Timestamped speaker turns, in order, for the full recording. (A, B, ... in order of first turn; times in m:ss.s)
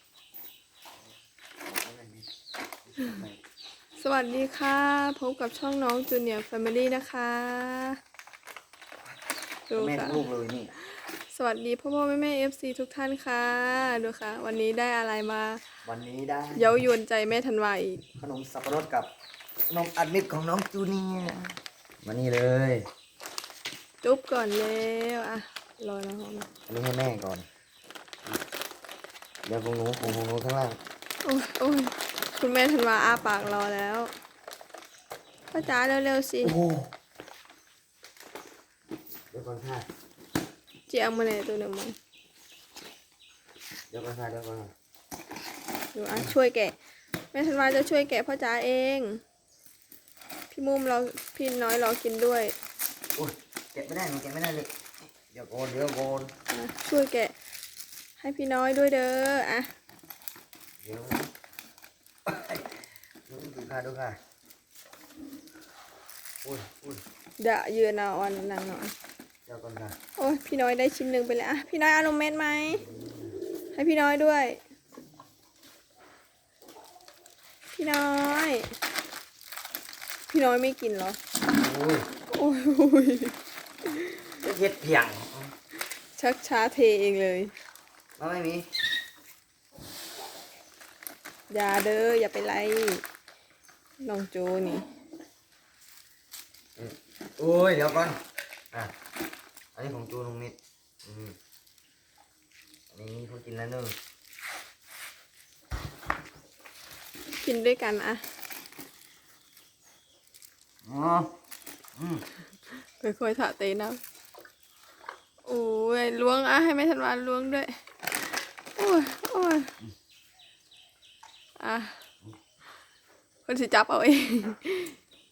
0:01.6-0:02.3 A
0:02.9-0:03.4 A
0:04.0-0:08.0 B
0:09.7-0:10.2 B
0:09.8-0:10.7 A
0:11.3-0:15.6 B
0:15.8-0:16.7 A
0:16.5-0:18.0 B
0:18.2-0:19.1 A
0:19.7-0:22.9 A
0:24.0-0:26.5 B
0:26.7-0:27.5 A
0:29.4-0:30.8 A
0:31.2-0:34.1 B
0:35.5-0:36.6 B
0:36.4-0:36.9 A
0:39.3-0:39.9 A
0:40.9-0:42.0 B
0:43.9-0:44.7 A
0:46.0-0:46.8 B
0:47.3-0:49.2 B
0:50.5-0:52.5 B
0:53.2-0:54.7 A
0:55.3-0:56.3 A
0:56.5-0:57.3 B
0:58.2-0:59.7 B
1:00.8-1:01.3 A
1:02.3-1:02.8 A
1:03.3-1:04.2 A
1:06.4-1:07.0 A
1:07.4-1:08.9 B
1:09.5-1:10.0 A
1:10.2-1:12.8 B
1:12.7-1:13.4 A
1:13.7-1:14.6 B
1:17.7-1:18.7 B
1:20.3-1:21.2 B
1:21.5-1:22.1 A
1:22.3-1:24.4 B
1:24.4-1:25.5 A
1:26.2-1:27.5 B
1:28.2-1:28.7 A
1:31.5-1:33.0 B
1:34.0-1:34.9 B
1:36.8-1:38.2 A
1:39.8-1:41.4 A
1:42.9-1:44.0 A
1:47.4-1:48.2 B
1:50.8-1:51.3 A
1:52.0-1:52.2 A
1:53.0-1:54.0 B
1:55.4-1:57.7 B
1:58.8-1:59.7 B
2:01.6-2:02.0 B
2:03.5-2:05.0 B